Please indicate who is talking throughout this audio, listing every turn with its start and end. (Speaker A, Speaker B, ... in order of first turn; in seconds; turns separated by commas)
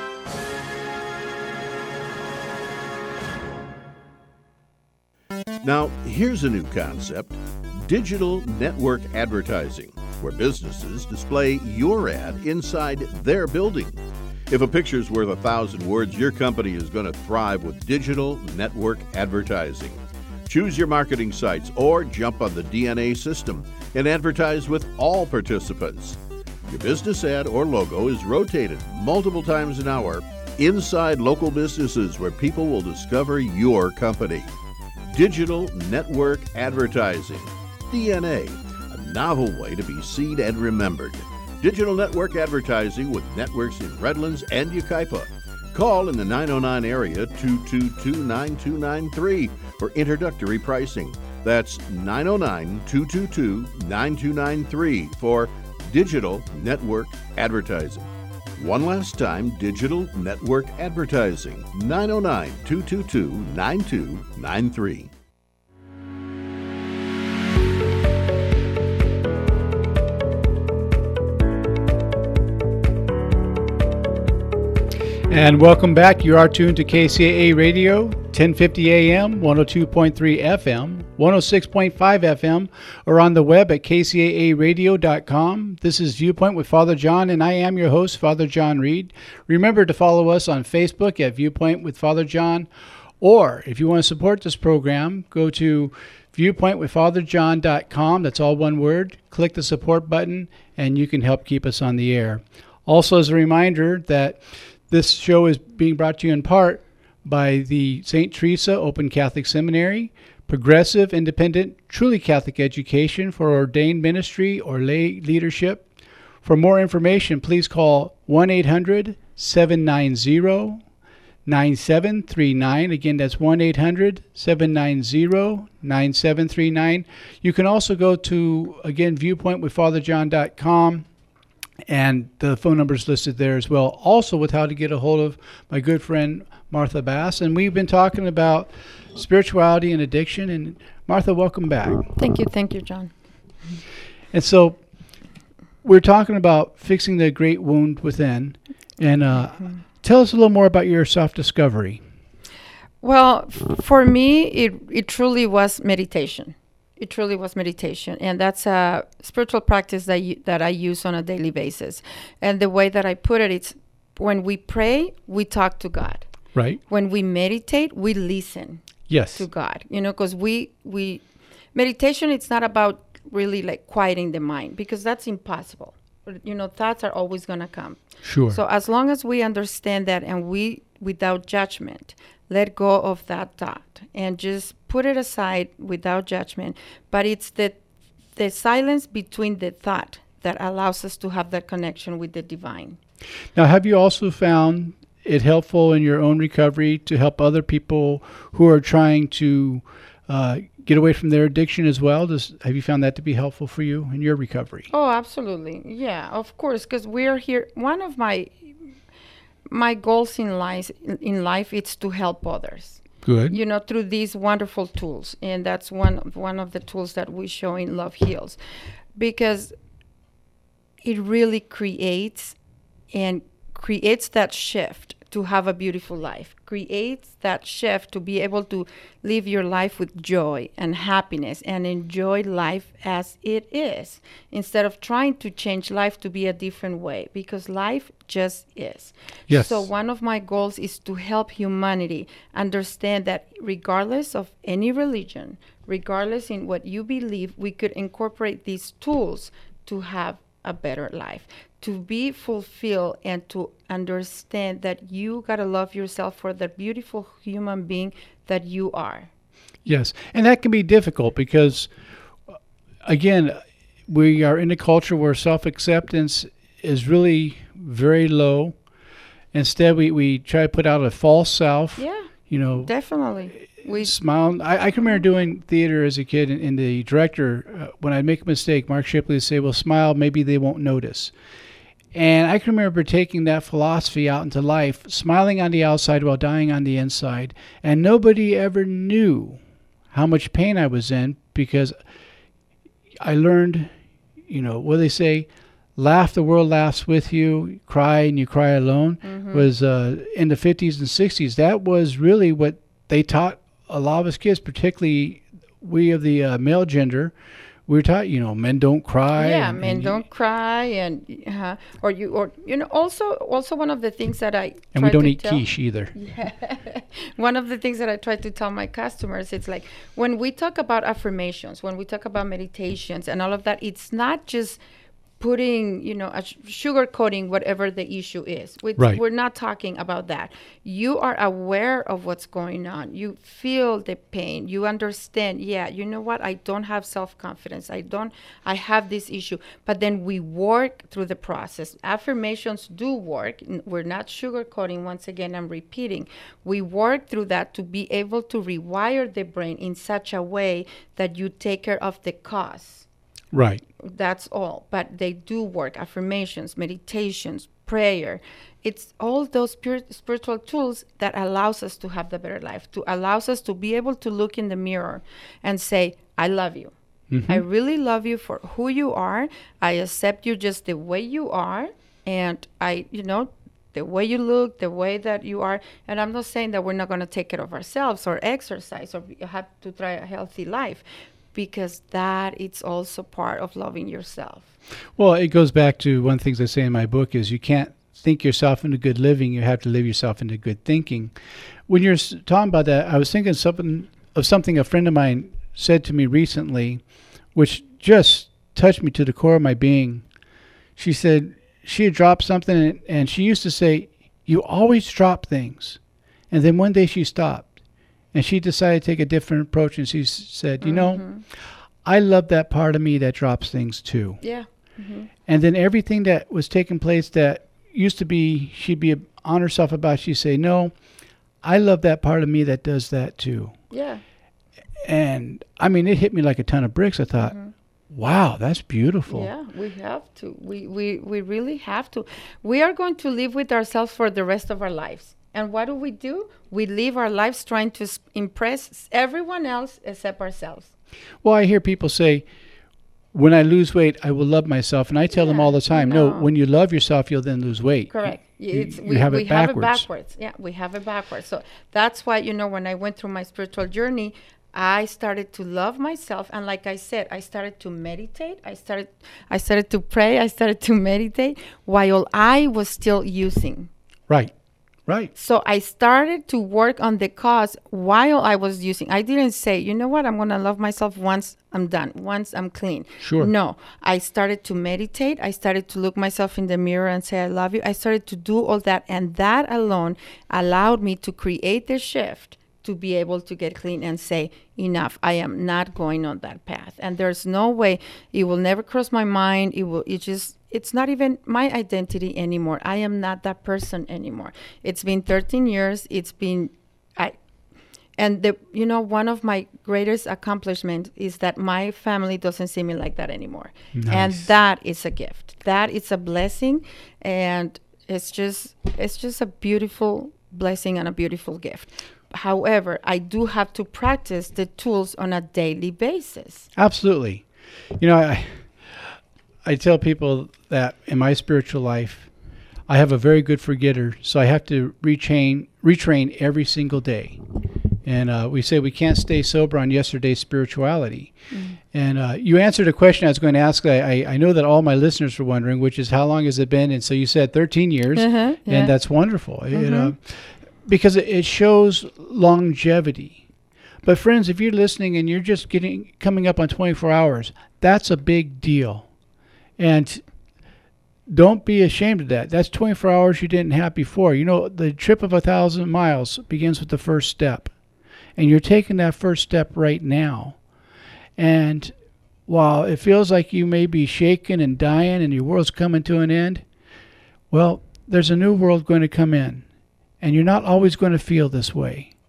Speaker A: 5.6-34.5, Speaker A: 35.1-65.1, Speaker B: 75.3-115.8, Speaker B: 116.4-120.8, Speaker B: 121.4-131.1, Speaker B: 131.9-142.1, Speaker C: 142.2-143.1, Speaker B: 144.3-144.8, Speaker B: 145.8-152.0, Speaker C: 153.0-166.3, Speaker B: 166.5-166.8, Speaker C: 166.9-168.8, Speaker B: 169.1-169.5, Speaker C: 169.3-171.2, Speaker C: 171.7-187.8, Speaker B: 178.2-178.6, Speaker C: 188.3-193.0, Speaker B: 193.5-204.9, Speaker C: 204.9-208.7, Speaker C: 209.7-218.6, Speaker B: 213.2-213.6, Speaker C: 219.2-219.7, Speaker C: 221.0-222.5, Speaker C: 223.1-259.3, Speaker B: 239.5-239.9, Speaker B: 259.8-261.9, Speaker B: 263.0-268.7, Speaker B: 269.5-272.9, Speaker C: 272.0-274.1, Speaker B: 273.6-281.3, Speaker B: 282.1-291.9, Speaker B: 293.2-293.9, Speaker B: 294.5-307.3, Speaker C: 299.2-299.7, Speaker B: 307.9-310.2, Speaker C: 309.4-324.8, Speaker B: 314.9-316.1, Speaker C: 325.4-353.1, Speaker B: 353.5-353.8, Speaker C: 354.0-366.9, Speaker B: 367.3-367.6, Speaker C: 367.5-381.0, Speaker C: 381.5-384.7, Speaker B: 385.1-391.3, Speaker B: 391.9-397.0, Speaker B: 397.5-400.2, Speaker B: 400.9-406.0, Speaker B: 406.5-407.7, Speaker B: 408.3-411.2, Speaker C: 410.8-411.4, Speaker B: 412.0-414.4, Speaker C: 414.4-415.3, Speaker B: 415.5-420.9, Speaker B: 421.6-423.8, Speaker C: 423.9-424.2, Speaker B: 425.0-427.6, Speaker C: 427.4-427.7, Speaker B: 428.1-429.5, Speaker C: 429.3-440.9, Speaker B: 441.4-442.4, Speaker B: 443.3-450.1, Speaker C: 445.3-446.5, Speaker C: 448.1-463.9, Speaker B: 465.1-465.3, Speaker C: 465.3-497.3, Speaker B: 473.2-473.5, Speaker C: 498.2-516.7, Speaker B: 503.9-504.5, Speaker B: 516.7-517.5, Speaker B: 518.0-519.0, Speaker B: 519.6-522.3, Speaker B: 522.9-527.4, Speaker B: 528.0-531.4, Speaker C: 531.5-531.8, Speaker B: 531.9-543.4, Speaker C: 538.1-539.0, Speaker C: 539.7-540.1, Speaker B: 544.0-549.1, Speaker B: 549.8-550.2, Speaker B: 551.3-557.7, Speaker B: 558.4-560.6, Speaker B: 561.4-561.9, Speaker B: 562.5-566.6, Speaker B: 567.5-569.6, Speaker B: 570.2-572.1